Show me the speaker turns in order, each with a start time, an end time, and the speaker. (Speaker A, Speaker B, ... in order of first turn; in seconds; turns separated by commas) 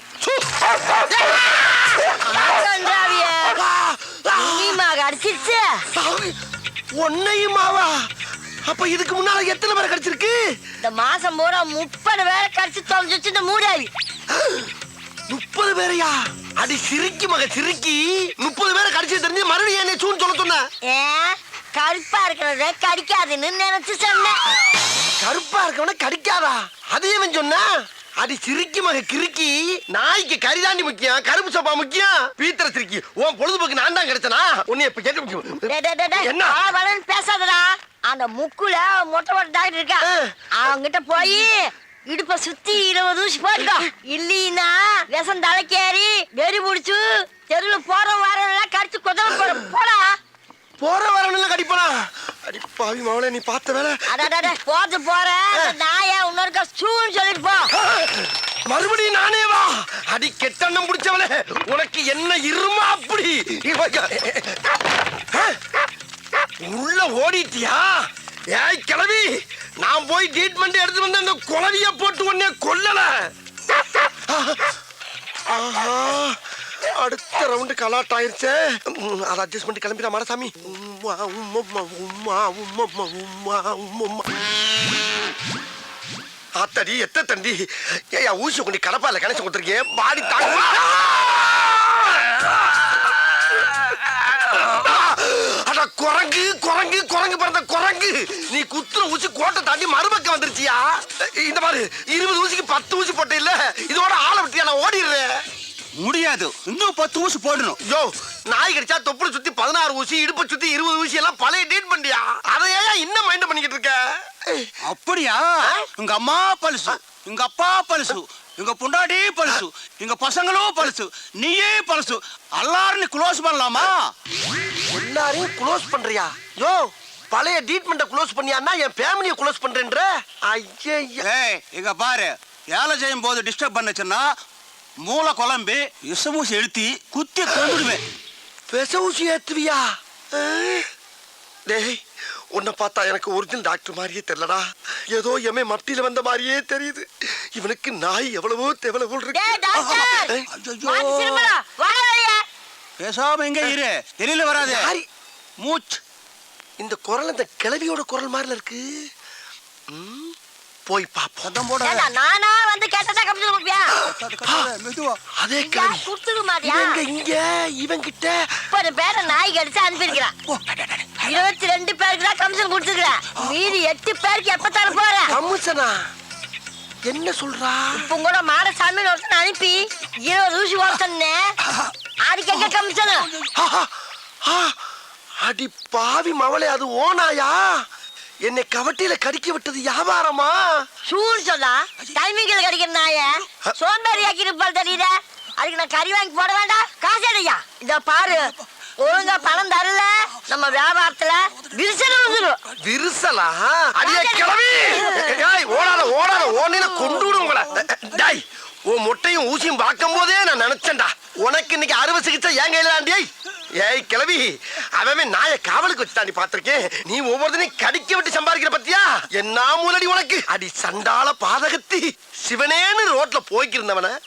Speaker A: 1.1-3.6, Speaker B: 3.5-4.8, Speaker A: 4.4-5.8, Speaker B: 5.9-6.3, Speaker B: 7.0-7.9, Speaker B: 8.7-10.4, Speaker A: 10.8-13.9, Speaker B: 14.3-14.7, Speaker B: 15.3-20.6, Speaker A: 20.9-24.4, Speaker B: 25.2-27.7, Speaker B: 28.2-36.6, Speaker A: 35.7-50.2, Speaker B: 40.0-40.5, Speaker B: 49.3-49.6, Speaker B: 50.8-54.5, Speaker A: 54.1-57.7, Speaker B: 57.8-65.6, Speaker B: 66.6-67.9, Speaker B: 68.5-73.2, Speaker B: 74.3-74.8, Speaker B: 75.5-84.3, Speaker B: 86.6-105.3, Speaker C: 106.0-107.8, Speaker B: 107.9-114.7, Speaker C: 114.9-124.1, Speaker B: 115.6-115.9, Speaker B: 124.9-131.3, Speaker C: 131.2-134.3, Speaker C: 135.0-138.0, Speaker B: 138.7-140.9, Speaker B: 141.7-142.0, Speaker B: 142.5-149.6, Speaker A: 149.3-152.4, Speaker C: 149.7-151.6, Speaker B: 150.1-150.5, Speaker C: 153.0-154.9, Speaker B: 154.6-155.1, Speaker C: 155.6-156.0, Speaker B: 156.8-158.8, Speaker B: 159.9-160.3, Speaker B: 160.9-161.6, Speaker C: 161.4-162.1, Speaker A: 161.8-164.0, Speaker C: 164.0-165.2, Speaker B: 164.4-164.7, Speaker B: 165.4-166.1, Speaker A: 165.6-167.0, Speaker B: 166.6-168.6, Speaker A: 168.7-170.4, Speaker C: 170.5-171.3, Speaker A: 171.2-175.3, Speaker B: 175.3-176.0, Speaker B: 177.1-178.1, Speaker A: 177.9-181.5, Speaker A: 182.2-183.3, Speaker B: 183.5-183.9, Speaker B: 184.4-184.8, Speaker B: 185.4-187.8, Speaker B: 188.4-190.8, Speaker A: 191.1-202.6, Speaker B: 202.8-224.1, Speaker A: 204.0-205.7, Speaker A: 206.8-207.2